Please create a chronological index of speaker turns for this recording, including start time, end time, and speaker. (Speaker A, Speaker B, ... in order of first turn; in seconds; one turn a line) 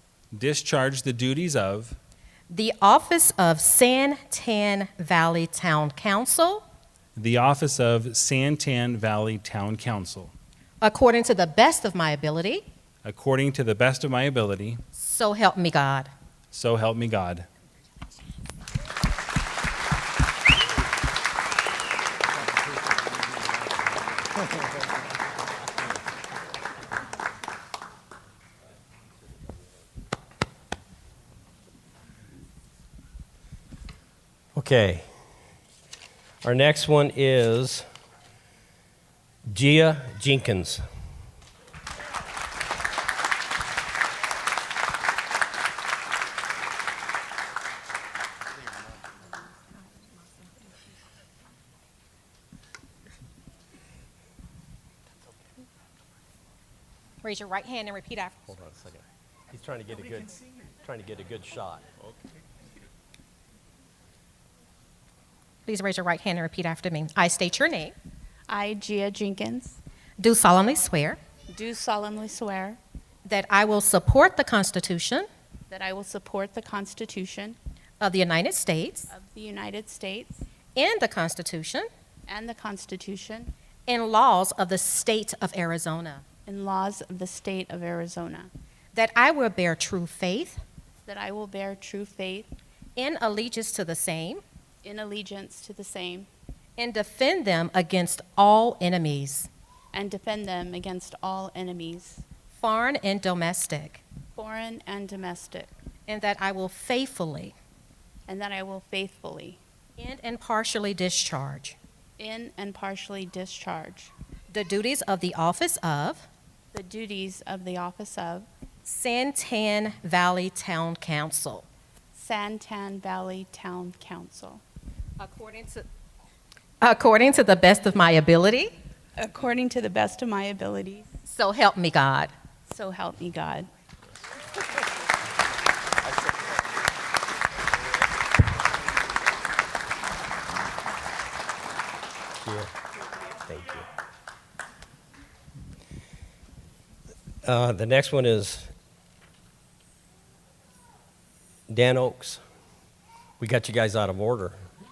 Speaker A: 0.3-2.0
Speaker B: 2.5-6.6
Speaker A: 7.2-10.3
Speaker B: 10.8-12.6
Speaker A: 13.1-14.8
Speaker B: 14.9-16.1
Speaker A: 16.5-17.5
Speaker C: 34.5-35.1
Speaker C: 36.4-37.9
Speaker C: 39.5-40.9
Speaker B: 57.2-58.4
Speaker C: 58.5-61.9
Speaker B: 65.7-67.9
Speaker D: 68.5-69.8
Speaker B: 70.2-71.2
Speaker D: 71.5-72.8
Speaker B: 73.3-75.3
Speaker D: 75.7-77.6
Speaker B: 78.0-79.1
Speaker D: 79.1-80.5
Speaker B: 80.8-81.9
Speaker D: 82.3-83.5
Speaker B: 83.9-86.2
Speaker D: 86.5-88.5
Speaker B: 88.9-90.6
Speaker D: 91.0-92.5
Speaker B: 93.0-94.4
Speaker D: 94.8-96.3
Speaker B: 96.8-99.5
Speaker D: 99.9-102.2
Speaker B: 102.5-104.0
Speaker D: 104.4-105.7
Speaker B: 106.1-107.5
Speaker D: 108.3-109.6
Speaker B: 110.0-111.8
Speaker D: 112.2-114.1
Speaker B: 114.5-116.3
Speaker D: 116.7-118.5
Speaker B: 118.8-121.7
Speaker D: 122.2-124.6
Speaker B: 125.2-125.8
Speaker B: 126.8-128.8
Speaker D: 129.2-131.1
Speaker B: 131.2-132.3
Speaker D: 132.7-133.7
Speaker C: 142.4-142.7
Speaker C: 143.5-143.9
Speaker C: 147.4-148.7
Speaker C: 151.7-152.4
Speaker C: 153.4-154.6